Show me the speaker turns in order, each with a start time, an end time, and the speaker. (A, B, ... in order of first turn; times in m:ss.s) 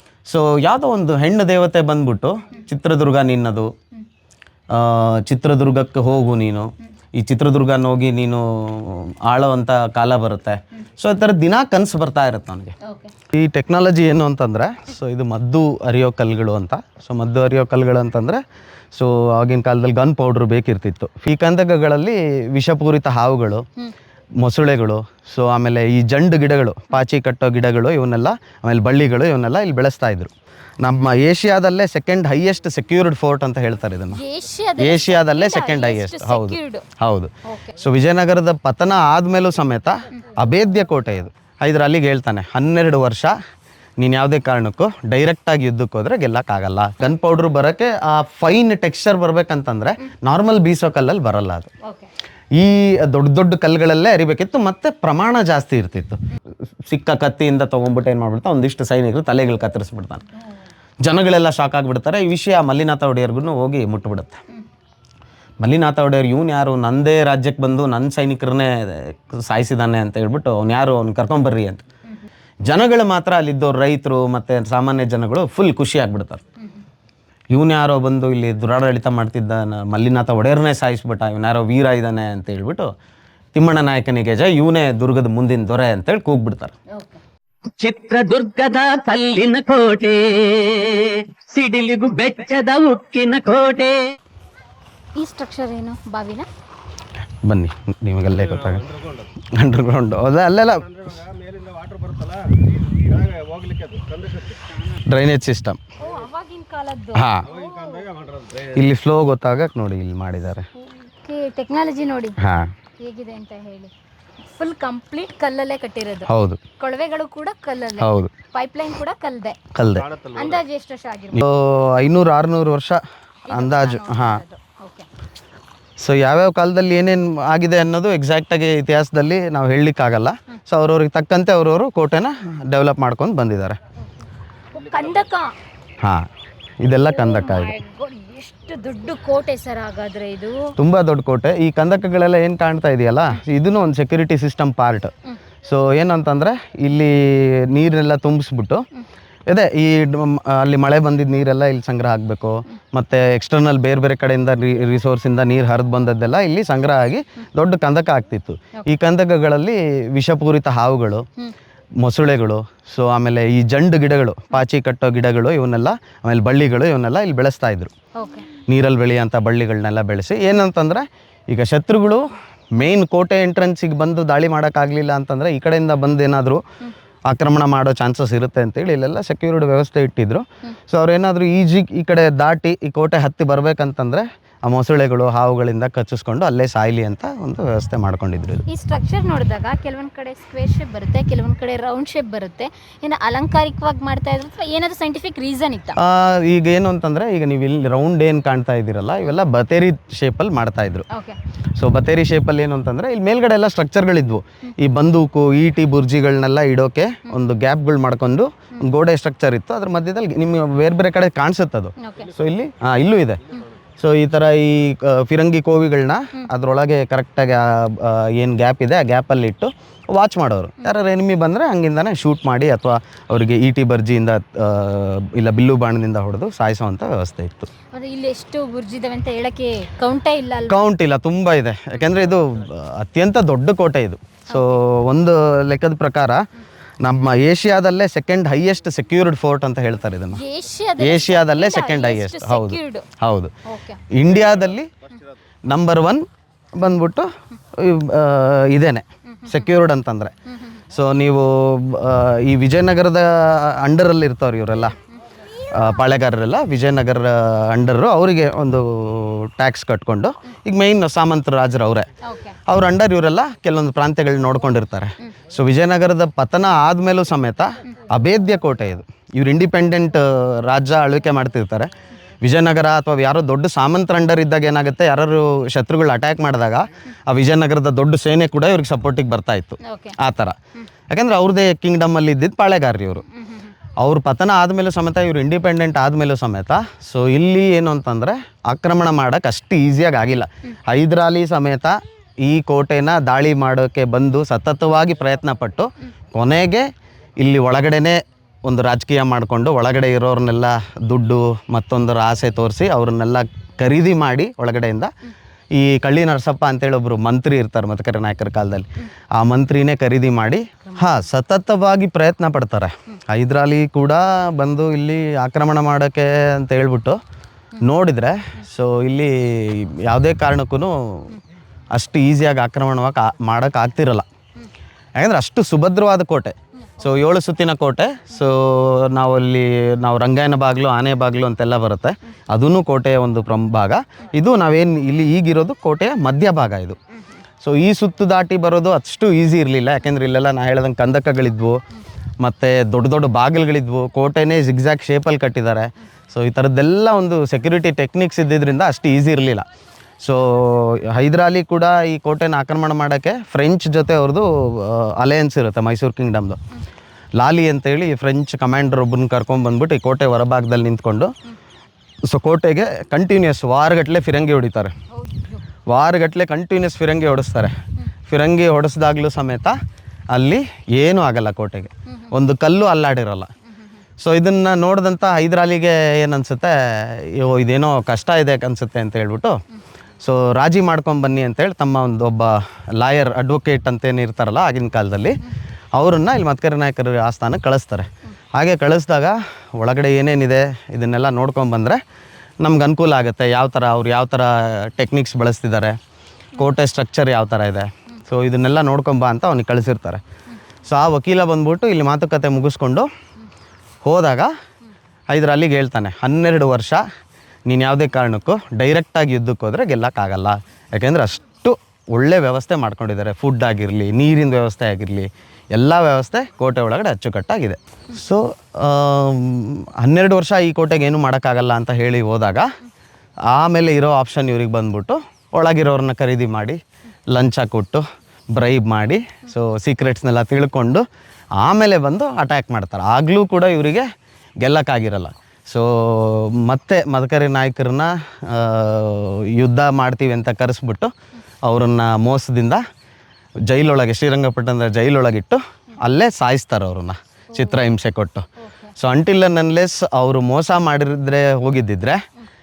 0:00.3-0:03.7 A
0:04.7-0:12.8 A
0:12.8-0:13.1 B
0:13.3-0:18.4 A
0:18.9-0:23.8 A
0:24.4-0:34.2 A
0:34.1-0:36.9 B
0:34.8-0:43.3 A
0:44.0-0:51.7 A
0:51.8-0:52.1 B
0:52.6-0:56.2 A
0:56.9-1:00.2 A
1:01.0-1:04.4 A
1:05.6-1:11.8 A
1:12.7-1:16.4 A
1:17.5-1:22.9 A
1:23.5-1:26.7 A
1:27.8-1:34.1 C
1:35.2-1:36.5 B
1:37.4-1:41.2 A
1:44.7-1:45.8 A
1:46.0-1:48.2 B
1:47.1-1:47.5 A
1:48.5-1:50.7 A
1:51.1-1:52.4 B
1:52.4-1:52.7 A
1:53.0-1:53.9 B
1:54.6-1:56.3 B
1:56.3-1:56.6 A
1:56.8-1:59.6 B
1:58.0-1:58.3 A
1:59.8-2:00.3 A
2:00.2-2:01.4 B
2:01.3-2:04.4 A
2:03.5-2:05.1 B
2:06.0-2:13.8 A
2:14.8-2:15.5 B
2:16.8-2:17.7 A
2:17.1-2:20.7 B
2:20.8-2:25.1 A
2:25.6-2:28.8 A
2:29.5-2:41.3 A
2:42.0-2:47.9 A
2:48.2-2:48.5 B
2:48.7-2:56.6 A
2:57.3-3:08.6 A
3:08.7-3:16.0 B
3:16.0-3:21.1 A
3:21.1-3:21.4 B
3:21.8-3:47.7 A
3:32.0-3:32.4 B
3:47.9-3:50.8 B
3:50.7-3:56.4 A
3:57.0-4:00.4 A
4:00.4-4:03.1 B
4:01.0-4:03.5 A
4:03.7-4:04.0 B
4:04.1-4:04.9 A
4:05.7-4:06.2 A
4:06.8-4:10.3 A
4:10.9-4:15.0 A
4:15.7-4:22.1 A
4:22.2-4:22.6 B
4:22.7-4:31.9 A
4:32.4-4:40.6 A
4:39.9-4:40.2 B
4:41.1-4:43.3 A
4:43.4-4:43.7 B
4:44.0-4:56.9 A
4:57.4-5:05.1 A
5:05.7-5:17.2 A
5:17.8-5:21.4 A
5:21.9-5:24.3 A
5:25.2-5:37.0 A
5:37.6-5:41.8 A
5:42.4-5:49.7 A
5:50.2-5:56.6 A
5:57.4-6:01.3 A
6:02.3-6:04.9 A
6:05.1-6:05.6 B
6:05.9-6:07.8 A
6:08.3-6:09.8 A
6:10.3-6:13.5 A
6:14.2-6:19.6 A
6:20.2-6:25.4 A
6:26.0-6:32.0 A
6:32.6-6:36.0 A
6:36.6-6:40.2 A
6:40.8-6:43.1 A
6:44.0-6:44.5 A
6:45.3-6:47.0 A
6:47.7-7:02.7 A
7:03.5-7:11.0 A
7:11.6-7:14.1 A
7:14.6-7:21.1 A
7:21.6-7:22.8 A
7:23.7-7:32.2 A
7:27.6-7:27.8 B